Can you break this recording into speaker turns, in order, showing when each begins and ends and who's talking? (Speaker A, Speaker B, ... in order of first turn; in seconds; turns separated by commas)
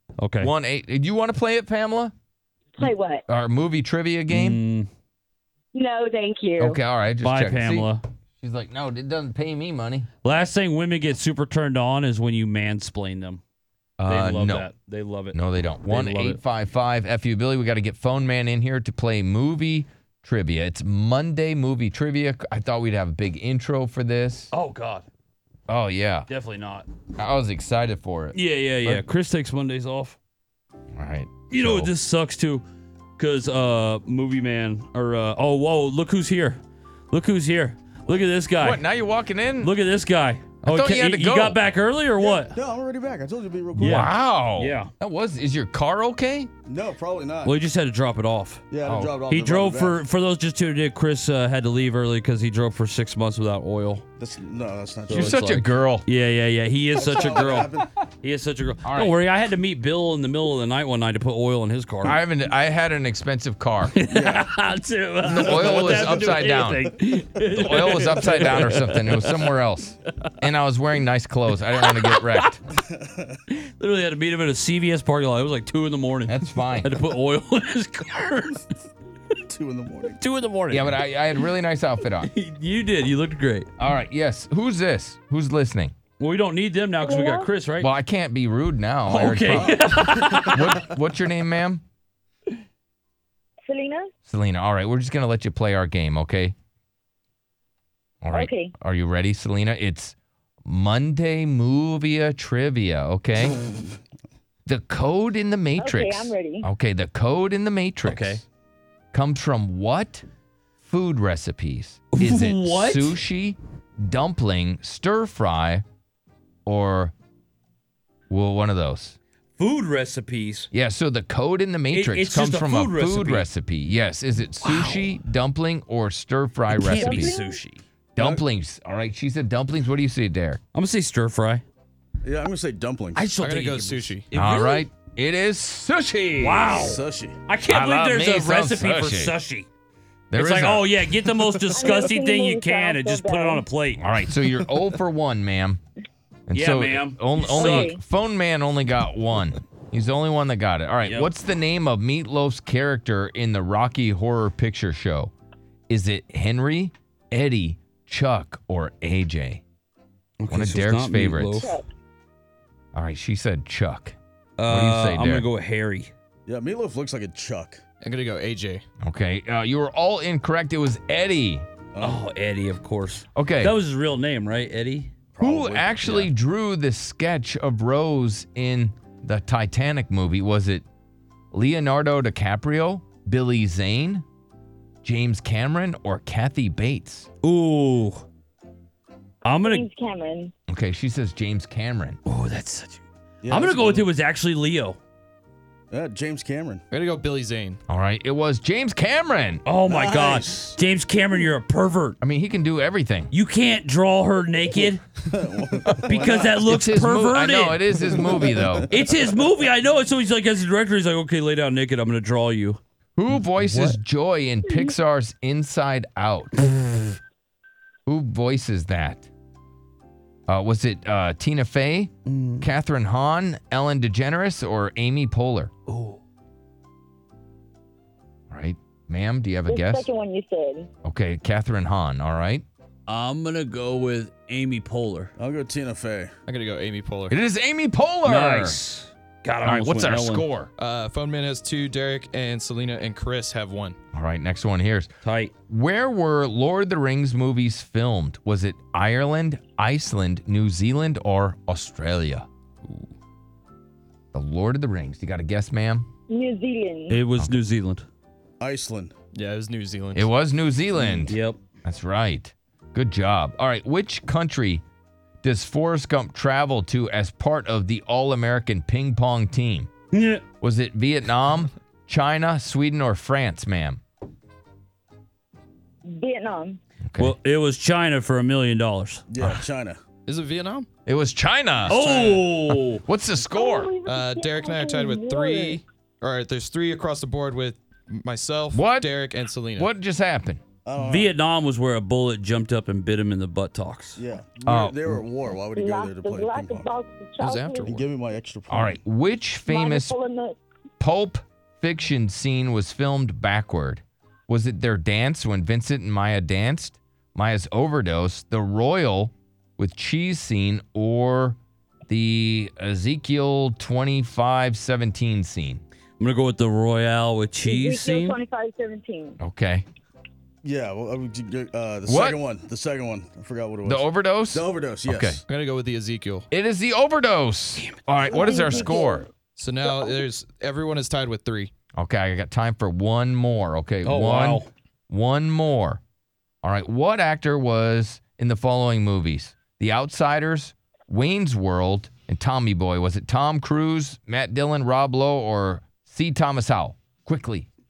Speaker A: 0.2-0.5, Speaker B: 0.4-2.1, Speaker C: 2.8-3.2, Speaker B: 3.3-4.6, Speaker A: 4.3-4.9, Speaker C: 5.7-6.8, Speaker B: 6.6-7.9, Speaker A: 7.2-8.0, Speaker B: 8.4-10.1, Speaker A: 10.2-13.4, Speaker B: 14.0-14.7, Speaker A: 14.1-16.4, Speaker B: 15.3-24.5, Speaker A: 24.5-25.1, Speaker B: 25.7-26.3, Speaker A: 26.3-26.9, Speaker B: 27.2-29.0, Speaker A: 28.3-30.2, Speaker B: 30.9-31.9, Speaker A: 31.5-32.6, Speaker A: 33.2-38.9, Speaker B: 38.6-39.7, Speaker A: 39.6-42.6, Speaker B: 40.6-41.6, Speaker D: 42.2-44.1, Speaker A: 43.8-44.9, Speaker B: 43.8-46.5, Speaker D: 46.6-47.6, Speaker A: 47.5-48.6, Speaker D: 48.7-50.0, Speaker B: 48.9-49.2, Speaker A: 49.2-54.0, Speaker D: 54.2-55.6, Speaker A: 55.1-62.2, Speaker B: 55.1-56.1, Speaker D: 57.0-57.9, Speaker B: 58.8-59.1, Speaker B: 62.0-64.0, Speaker A: 63.9-69.5, Speaker D: 64.1-64.5, Speaker B: 65.2-66.9, Speaker D: 65.5-66.5, Speaker B: 67.5-72.6, Speaker A: 71.8-72.5, Speaker D: 72.8-73.4, Speaker A: 73.5-78.7, Speaker B: 76.3-76.9, Speaker D: 79.5-80.2, Speaker A: 80.0-81.0, Speaker B: 80.7-82.3, Speaker A: 82.0-83.7, Speaker B: 83.8-85.9, Speaker A: 86.2-87.9, Speaker C: 87.0-87.5, Speaker B: 87.8-91.8, Speaker A: 89.1-90.8, Speaker C: 93.7-94.1, Speaker B: 94.3-96.5, Speaker B: 98.2-100.2, Speaker C: 98.3-98.7, Speaker B: 100.7-103.6, Speaker B: 104.7-108.4, Speaker C: 105.8-106.7, Speaker A: 108.0-108.4, Speaker B: 109.1-110.2, Speaker B: 110.8-115.8, Speaker A: 112.1-113.2, Speaker B: 116.7-117.1, Speaker B: 118.3-119.2, Speaker A: 119.6-120.7, Speaker B: 120.7-127.4, Speaker A: 121.9-123.5, Speaker A: 124.6-125.2, Speaker A: 126.7-127.8, Speaker C: 126.9-127.6, Speaker B: 128.2-130.6, Speaker D: 128.2-128.4, Speaker A: 130.7-131.6, Speaker D: 132.2-133.3, Speaker A: 133.2-134.9, Speaker E: 133.4-134.2, Speaker B: 134.3-136.9, Speaker A: 136.4-139.7, Speaker D: 136.6-137.4, Speaker B: 137.7-139.4, Speaker B: 140.3-142.0, Speaker A: 140.3-144.6, Speaker C: 141.8-143.7, Speaker B: 144.0-145.8, Speaker B: 146.5-155.3, Speaker A: 146.5-147.9, Speaker C: 147.4-148.0, Speaker B: 155.9-159.6, Speaker A: 160.4-161.7, Speaker B: 160.5-161.7, Speaker C: 161.5-161.9, Speaker B: 162.9-165.5, Speaker A: 164.6-166.1, Speaker D: 166.5-167.8, Speaker E: 168.0-168.8, Speaker B: 169.0-171.7, Speaker D: 171.9-172.2, Speaker A: 172.0-176.3, Speaker B: 173.3-173.8, Speaker B: 175.4-180.8, Speaker B: 181.5-184.2, Speaker B: 185.0-187.3, Speaker A: 187.4-188.2, Speaker A: 189.4-189.9, Speaker C: 189.6-190.5, Speaker B: 190.7-192.2, Speaker A: 192.3-195.0, Speaker D: 193.4-194.1, Speaker D: 195.9-196.8, Speaker E: 196.9-197.8, Speaker B: 197.9-199.6, Speaker A: 199.7-202.2, Speaker D: 199.9-200.8, Speaker B: 202.2-203.3, Speaker A: 203.3-205.0, Speaker D: 205.2-206.6, Speaker B: 205.9-208.9, Speaker A: 206.1-208.0, Speaker D: 207.9-209.2, Speaker A: 208.9-212.8, Speaker B: 213.2-216.7, Speaker A: 213.3-214.0, Speaker B: 218.1-219.3, Speaker B: 220.5-225.7, Speaker A: 222.3-222.7, Speaker A: 225.9-226.2, Speaker B: 228.5-230.1, Speaker C: 229.7-230.9, Speaker B: 231.1-232.6, Speaker A: 233.1-235.3, Speaker D: 235.4-236.3, Speaker E: 236.5-237.3, Speaker B: 237.3-238.8, Speaker A: 238.2-240.5, Speaker B: 239.6-240.7, Speaker E: 240.8-244.0, Speaker B: 244.1-245.1, Speaker A: 245.2-245.5, Speaker B: 245.7-252.5, Speaker B: 254.3-256.1, Speaker C: 256.3-257.2, Speaker A: 257.1-258.1, Speaker D: 258.6-259.1, Speaker E: 259.3-260.3, Speaker B: 260.1-264.8, Speaker A: 261.3-261.6, Speaker B: 265.4-269.9, Speaker A: 270.1-270.4, Speaker B: 270.6-274.0, Speaker C: 276.1-276.8, Speaker B: 277.1-277.3, Speaker A: 277.2-279.2, Speaker D: 279.3-280.0, Speaker E: 280.3-280.9, Speaker B: 281.1-282.0, Speaker A: 281.9-283.0, Speaker E: 281.9-282.6, Speaker B: 282.9-283.9, Speaker C: 283.5-285.8, Speaker E: 284.1-289.9, Speaker B: 288.7-289.1, Speaker B: 289.8-290.6, Speaker D: 290.9-291.3, Speaker A: 291.0-294.2, Speaker D: 294.2-296.9, Speaker B: 294.6-295.2, Speaker C: 295.8-298.0, Speaker E: 297.4-298.0, Speaker D: 297.9-299.0, Speaker B: 298.7-300.1, Speaker C: 299.7-300.6, Speaker B: 301.0-315.8, Speaker A: 316.2-318.4, Speaker C: 317.6-319.4, Speaker B: 319.4-319.9, Speaker D: 320.6-325.4, Speaker B: 322.1-322.4, Speaker B: 323.9-325.4, Speaker E: 325.5-326.5, Speaker B: 326.5-329.3, Speaker C: 328.3-329.3, Speaker E: 329.6-331.7, Speaker B: 332.0-336.0, Speaker A: 334.0-334.7, Speaker B: 336.6-347.7